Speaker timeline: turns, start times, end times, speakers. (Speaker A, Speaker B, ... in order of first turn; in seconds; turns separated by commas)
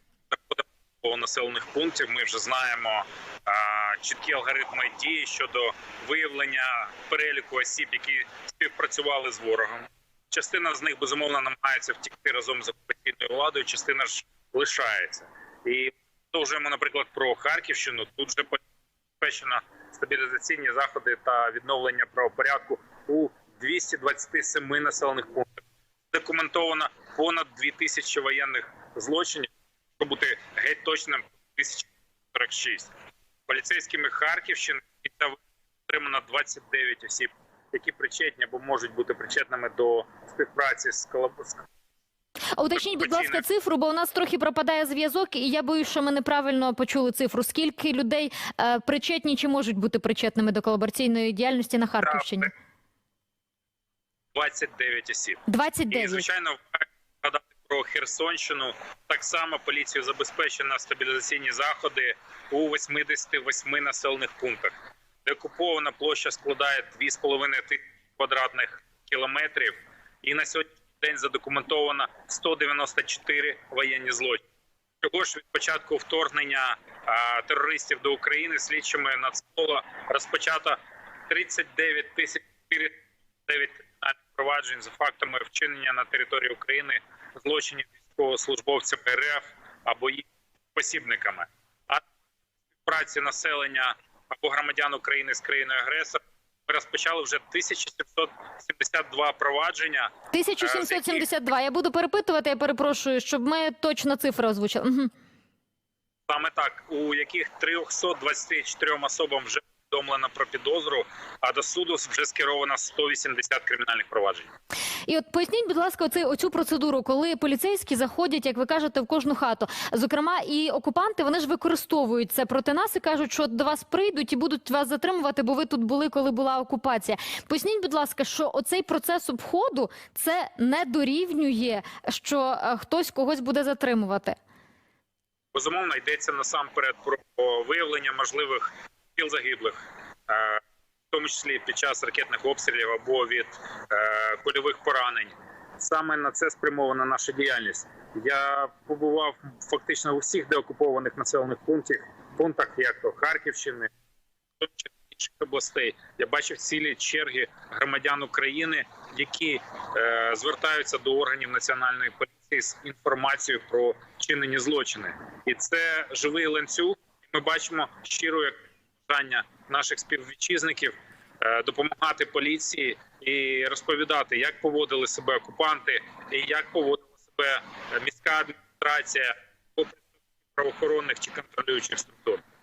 Speaker A: 0.3-18.6, Speaker A: 19.2-32.9, Speaker A: 33.5-41.7, Speaker B: 42.6-52.5, Speaker A: 42.8-43.4, Speaker A: 52.0-52.5, Speaker A: 54.3-74.4, Speaker B: 55.5-56.2, Speaker A: 75.0-92.0, Speaker A: 92.8-101.2, Speaker B: 100.3-105.1, Speaker A: 106.3-114.5, Speaker B: 115.1-134.4, Speaker A: 135.5-153.9, Speaker A: 154.6-180.0, Speaker A: 180.5-182.4